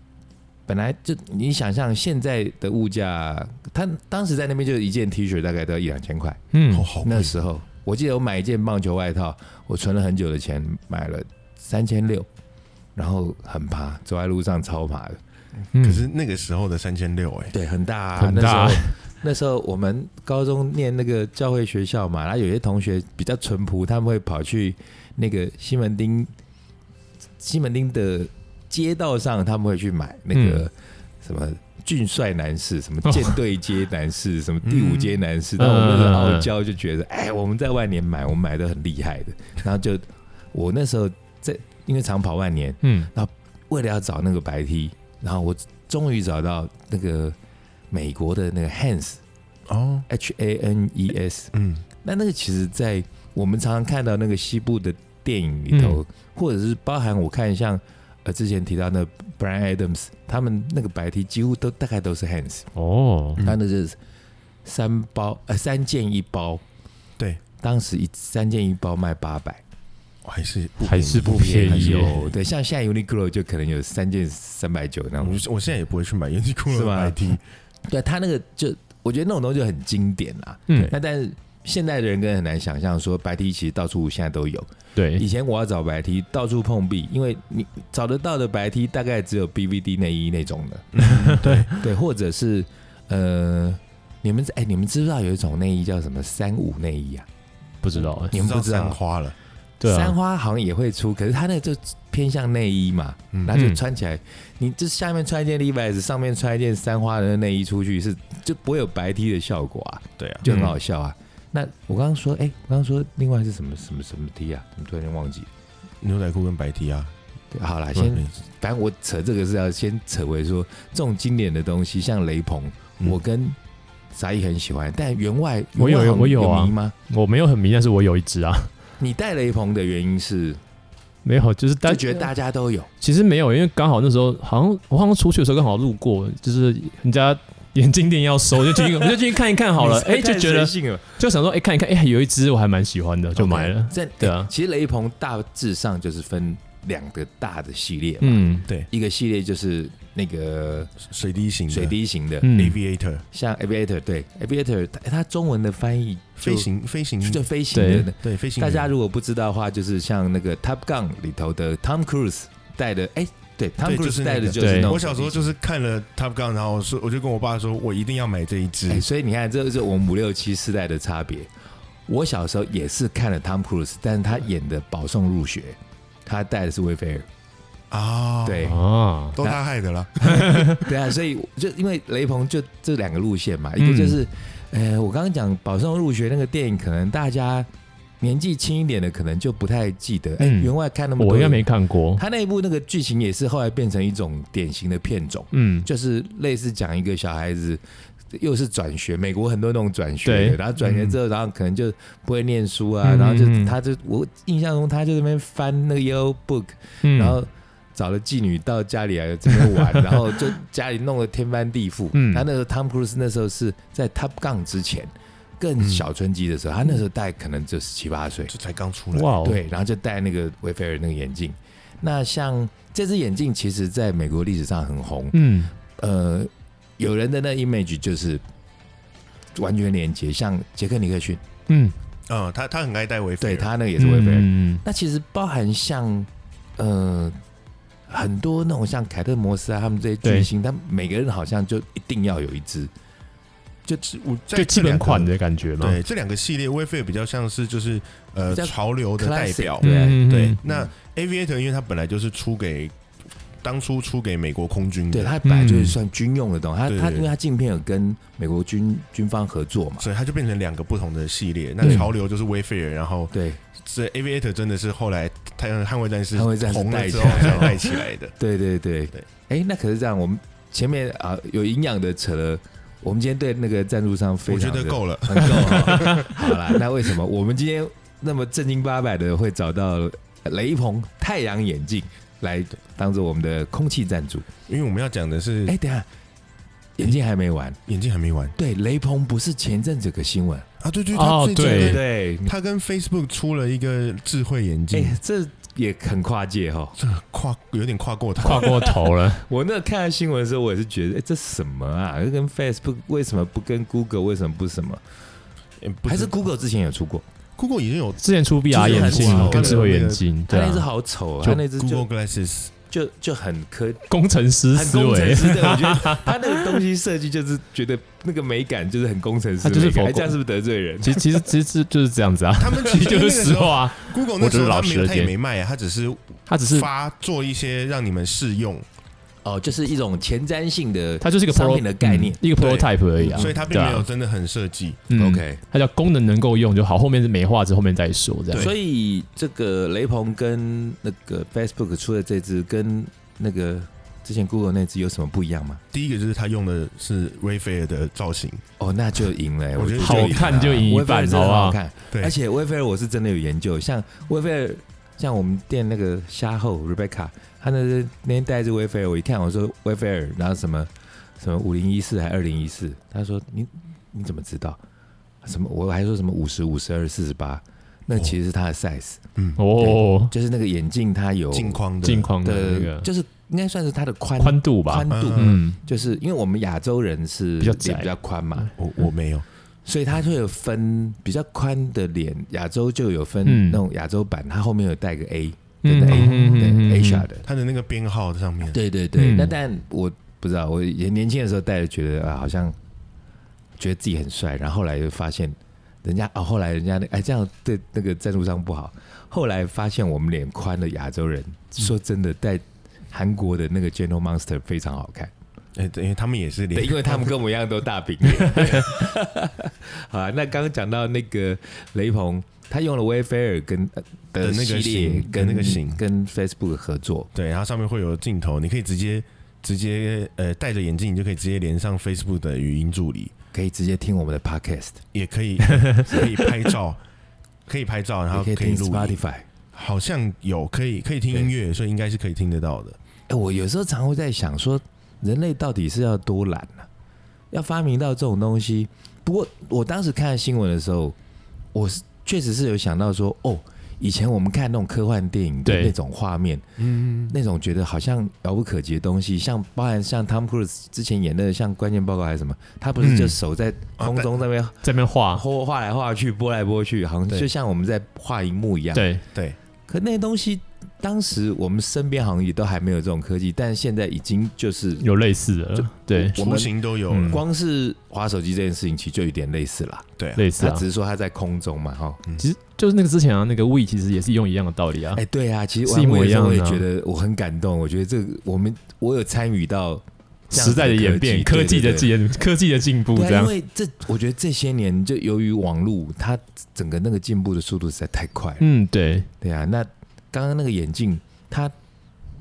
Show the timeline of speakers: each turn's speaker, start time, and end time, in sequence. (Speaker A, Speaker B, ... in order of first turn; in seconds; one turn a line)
Speaker A: 0.7-6.4
Speaker B: 6.5-6.9
Speaker C: 6.7-7.3
Speaker A: 7.0-12.3
Speaker A: 12.9-15.2
Speaker B: 15.7-16.0
Speaker C: 15.8-17.5
Speaker A: 17.5-26.3
Speaker B: 18.2-18.9
Speaker A: 27.4-47.4
Speaker B: 30.3-30.6
Speaker B: 33.0-33.4
Speaker C: 34.6-35.1
Speaker B: 35.6-36.5
Speaker B: 42.8-43.1
Speaker A: 47.9-49.2
Speaker C: 49.7-50.1
Speaker A: 50.1-62.7
Speaker C: 51.5-51.8
Speaker B: 55.7-56.0
Speaker B: 62.8-63.4
Speaker A: 63.4-64.0
Speaker A: 64.6-66.6
Speaker A: 67.6-69.6
Speaker C: 70.2-72.1
Speaker B: 70.8-72.2
Speaker A: 71.2-75.4
Speaker C: 75.2-77.4
Speaker A: 76.7-77.3
Speaker A: 77.8-91.2
Speaker B: 80.7-80.9
Speaker B: 85.0-85.2
Speaker C: 90.9-91.7
Speaker B: 91.2-91.6
Speaker A: 91.7-97.3
Speaker B: 97.8-98.3
Speaker C: 98.2-99.3
Speaker A: 98.3-99.0
Speaker B: 99.8-100.1
Speaker A: 99.8-115.5
Speaker B: 103.5-103.8
Speaker C: 110.2-110.7
Speaker C: 116.0-117.1
Speaker A: 117.5-123.6
Speaker A: 124.1-126.9
Speaker B: 125.8-128.7
Speaker A: 129.0-130.6
Speaker B: 131.2-132.3
Speaker A: 131.8-132.9
Speaker B: 133.0-144.5
Speaker A: 138.7-141.2
Speaker A: 143.3-150.9
Speaker B: 148.2-148.7
Speaker C: 151.0-151.9
Speaker A: 151.7-152.5
Speaker B: 152.4-152.8
Speaker C: 152.5-153.2
Speaker A: 153.3-156.7
Speaker C: 156.4-157.4
Speaker A: 157.2-165.5
Speaker B: 157.7-158.1
Speaker C: 158.2-158.9
Speaker C: 163.8-169.0
Speaker B: 164.6-164.9
Speaker A: 168.9-171.5
Speaker A: 172.1-177.3
Speaker C: 177.9-178.7
Speaker A: 178.4-179.6
Speaker B: 178.6-179.3
Speaker C: 179.3-180.8
Speaker A: 180.2-187.7
Speaker B: 180.3-180.6
Speaker B: 183.8-184.2
Speaker A: 188.2-218.5
Speaker B: 190.4-192.2
Speaker B: 195.5-195.9
Speaker B: 200.2-200.6
Speaker C: 200.8-201.1
Speaker B: 203.0-203.7
Speaker B: 207.0-207.4
Speaker B: 212.1-212.4
Speaker C: 218.5-219.3
Speaker B: 219.1-219.6
Speaker A: 219.4-228.4
Speaker B: 225.3-225.7
Speaker A: 229.5-231.4
Speaker B: 231.7-231.9
Speaker C: 232.3-233.7
Speaker A: 233.4-237.4
Speaker B: 234.0-234.8
Speaker A: 238.1-242.9
Speaker B: 240.2-240.5
Speaker C: 244.0-252.9
Speaker B: 244.5-246.0
Speaker A: 248.5-250.9
Speaker B: 249.8-250.6
Speaker C: 253.6-255.3
Speaker A: 255.1-260.1
Speaker B: 255.4-256.0
Speaker C: 256.9-257.3
Speaker C: 260.0-268.4
Speaker A: 261.8-262.1
Speaker A: 263.3-263.6
Speaker A: 266.3-284.5
Speaker C: 274.5-276.3
Speaker C: 284.7-285.8
Speaker A: 285.7-286.1
Speaker A: 287.0-287.8
Speaker C: 287.9-288.6
Speaker A: 288.6-290.7
Speaker C: 290.8-295.2
Speaker B: 291.1-292.0
Speaker A: 291.6-292.5
Speaker A: 294.9-296.9
Speaker C: 297.0-298.8
Speaker B: 298.4-299.4
Speaker A: 298.4-305.0
Speaker C: 305.8-306.4
Speaker A: 306.1-307.2
Speaker C: 307.6-310.2
Speaker B: 308.2-310.8
Speaker A: 308.7-312.1
Speaker C: 311.7-312.7
Speaker A: 312.9-314.1
Speaker B: 314.1-316.8
Speaker A: 314.7-321.4
Speaker B: 319.6-320.3
Speaker B: 321.0-325.3
Speaker C: 322.6-328.9
Speaker B: 326.5-326.9
Speaker A: 329.4-332.4
Speaker B: 331.2-334.1
Speaker C: 332.5-335.0
Speaker A: 333.2-333.6
Speaker B: 335.1-338.7
Speaker A: 335.1-335.6
Speaker A: 338.5-345.8
Speaker C: 345.9-348.6
Speaker A: 348.8-364.8
Speaker C: 349.8-350.9
Speaker B: 350.0-351.8
Speaker A: 365.4-369.2
Speaker B: 369.6-370.3
Speaker A: 369.7-378.7
Speaker C: 371.5-372.3
Speaker B: 372.0-373.1
Speaker B: 374.4-375.8
Speaker C: 375.1-375.6
Speaker B: 377.6-378.1
Speaker C: 378.8-379.4
Speaker A: 379.8-387.4
Speaker B: 383.4-383.8
Speaker B: 385.8-387.3
Speaker C: 387.4-388.8
Speaker A: 388.7-392.8
Speaker B: 389.1-389.5
Speaker A: 393.8-405.3
Speaker C: 405.8-407.3
Speaker A: 406.7-417.3
Speaker C: 414.4-416.0
Speaker C: 417.3-423.3
Speaker A: 423.5-425.0
Speaker C: 425.1-427.0
Speaker C: 427.7-429.2
Speaker A: 428.3-429.5
Speaker C: 429.7-433.0
Speaker A: 433.3-436.9
Speaker A: 437.5-441.2
Speaker A: 441.7-446.6
Speaker B: 445.6-445.9
Speaker C: 446.8-447.3
Speaker A: 447.3-459.1
Speaker B: 453.0-453.4
Speaker C: 454.0-454.3
Speaker B: 454.8-455.4
Speaker B: 458.9-459.2
Speaker A: 459.9-465.1
Speaker B: 465.0-466.4
Speaker A: 465.7-470.1
Speaker C: 466.3-467.4
Speaker B: 467.1-467.4
Speaker C: 470.2-470.4
Speaker B: 470.4-470.8
Speaker A: 470.6-472.2
Speaker B: 472.4-475.2
Speaker A: 475.1-482.1
Speaker B: 475.9-476.8
Speaker B: 480.5-483.5
Speaker A: 483.1-488.6
Speaker B: 488.6-489.3
Speaker A: 489.4-491.7